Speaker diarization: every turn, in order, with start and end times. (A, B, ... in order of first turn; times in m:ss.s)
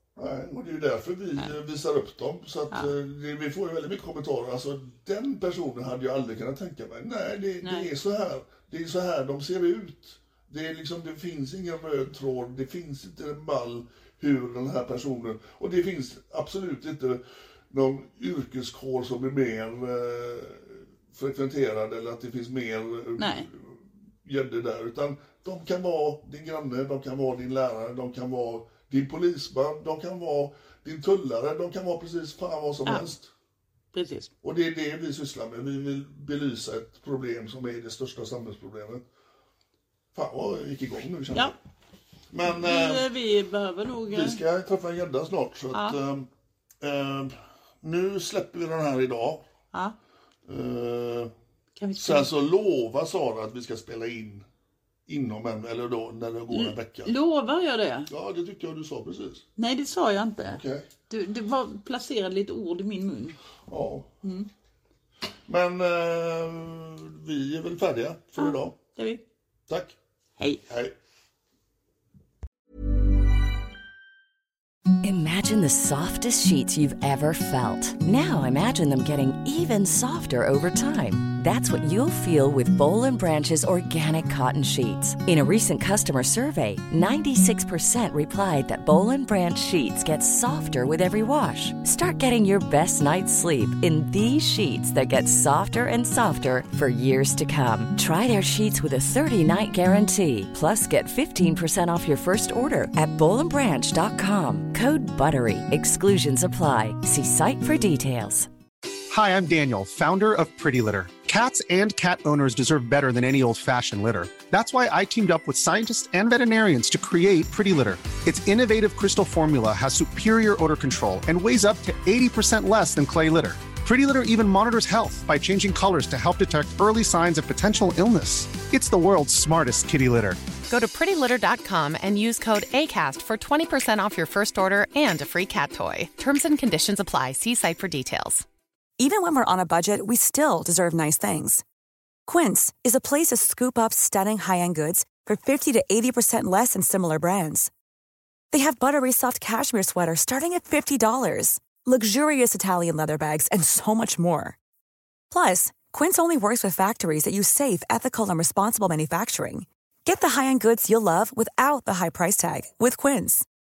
0:00.2-0:33.3 A
0:07.6-0:07.9 B
0:23.2-0:23.5 B
0:32.9-0:33.1 B
0:33.9-0:34.3 B
0:34.4-0:39.0 A
0:40.1-0:41.6 A
0:42.3-0:43.1 A
0:42.4-0:44.4 B
0:44.1-0:46.3 A
0:46.8-0:49.5 A
0:50.5-0:51.3 A
0:51.8-0:52.3 B
0:52.0-0:54.5 A
0:55.1-0:57.1 A
0:56.5-0:58.1 B
0:58.1-0:59.4 A
0:59.6-1:03.4 B
1:00.5-1:00.9 A
1:03.7-1:04.1 A
1:04.2-1:04.5 B
1:05.5-1:08.8 A
1:08.4-1:09.2 B
1:09.7-1:10.0 A
1:10.7-1:10.9 A
1:15.0-1:48.5 C
1:49.1-2:10.4 D
2:10.7-2:18.5 E
2:19.0-2:21.6 F
2:22.3-2:27.7 F
2:28.5-2:34.6 F
2:35.3-2:43.5 F